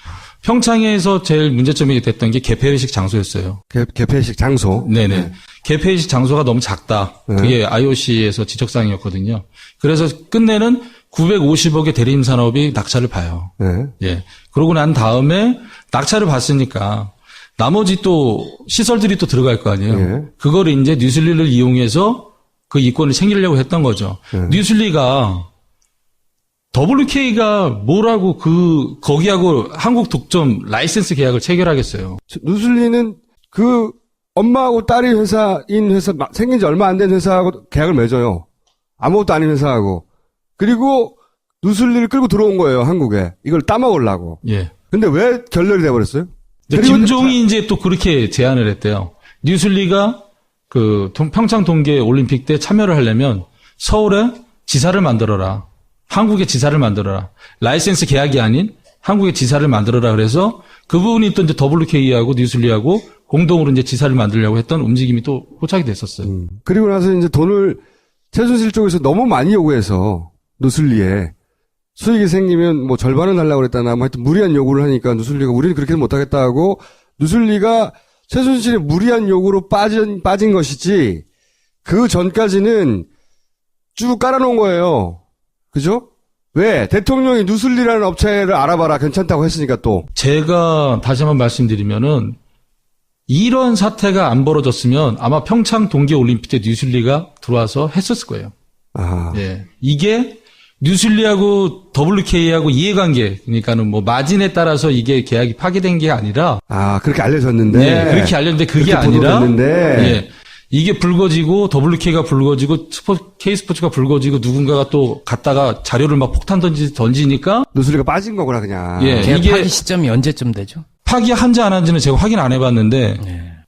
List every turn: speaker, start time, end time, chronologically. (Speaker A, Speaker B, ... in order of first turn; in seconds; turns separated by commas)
Speaker A: 0.4-3.6, Speaker B: 3.7-5.3, Speaker A: 4.8-25.5, Speaker B: 7.3-7.5, Speaker B: 13.6-13.9, Speaker B: 19.9-20.3, Speaker A: 26.7-32.2, Speaker B: 32.3-38.4, Speaker B: 39.0-40.0, Speaker B: 40.6-44.4, Speaker A: 44.4-44.7, Speaker B: 44.9-47.4, Speaker A: 46.7-66.3, Speaker B: 66.2-67.8, Speaker B: 68.3-71.3, Speaker B: 72.0-81.2, Speaker B: 81.8-83.1, Speaker B: 83.9-85.2, Speaker B: 85.7-90.1, Speaker A: 90.1-92.4, Speaker A: 93.3-98.5, Speaker B: 98.9-99.4, Speaker A: 99.3-106.6, Speaker B: 106.7-110.2, Speaker A: 107.7-117.7, Speaker B: 117.7-119.4, Speaker A: 119.0-119.7, Speaker C: 119.2-120.8, Speaker A: 121.0-123.2, Speaker C: 123.2-123.6